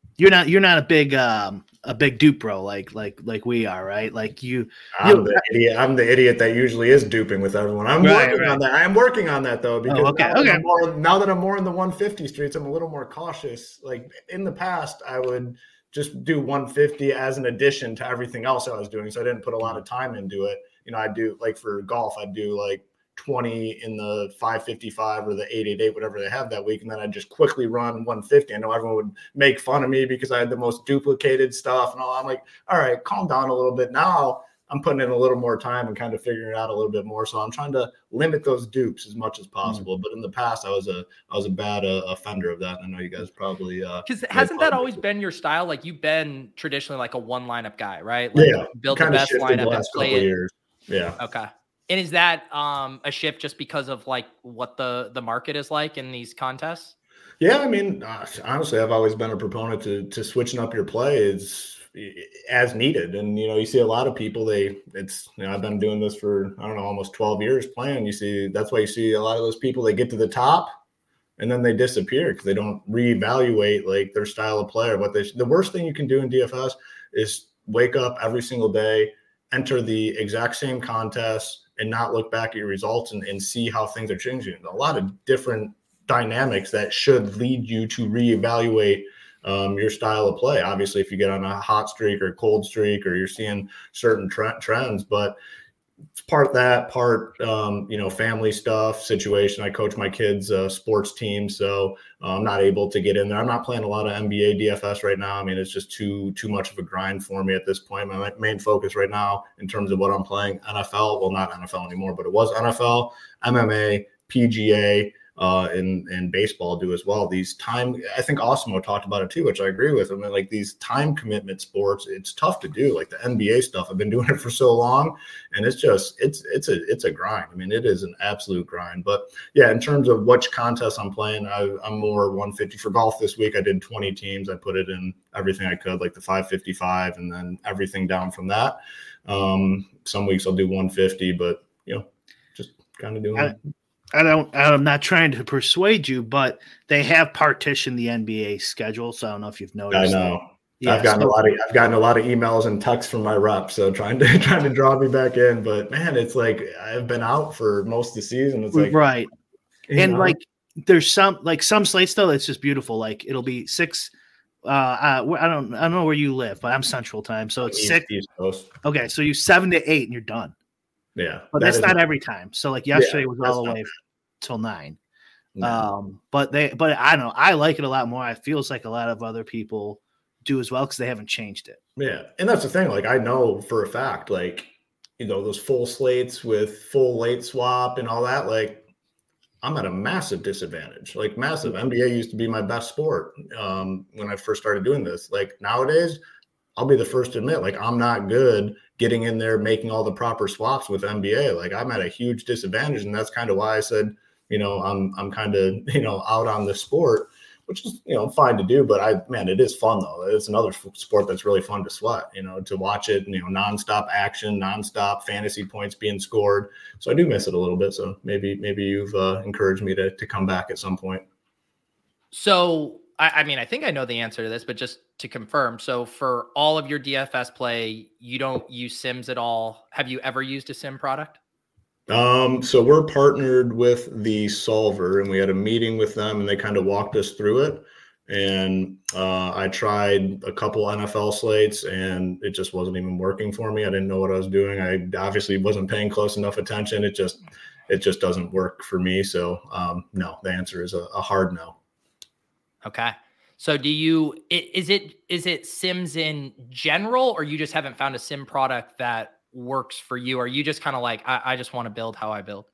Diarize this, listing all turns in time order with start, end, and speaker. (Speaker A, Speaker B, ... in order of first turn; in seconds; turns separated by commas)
Speaker A: 0.2-5.4, Speaker B: 5.0-45.0, Speaker A: 8.0-8.6, Speaker A: 9.9-10.6, Speaker C: 44.0-50.3, Speaker B: 48.3-51.2, Speaker C: 51.2-56.9, Speaker B: 57.4-70.7, Speaker B: 71.4-95.3, Speaker B: 96.2-143.6, Speaker A: 144.1-151.3, Speaker B: 149.9-159.0, Speaker A: 158.7-159.3, Speaker B: 159.9-160.4, Speaker A: 159.9-164.1, Speaker A: 164.6-168.0, Speaker B: 167.6-168.7, Speaker A: 168.8-170.5, Speaker B: 171.2-172.0, Speaker A: 171.5-175.0, Speaker B: 172.9-173.9, Speaker B: 175.5-175.8, Speaker A: 175.6-181.8, Speaker B: 182.0-188.9, Speaker B: 189.6-196.2, Speaker B: 196.8-221.2, Speaker C: 222.3-231.4, Speaker B: 232.1-251.8, Speaker C: 252.8-262.6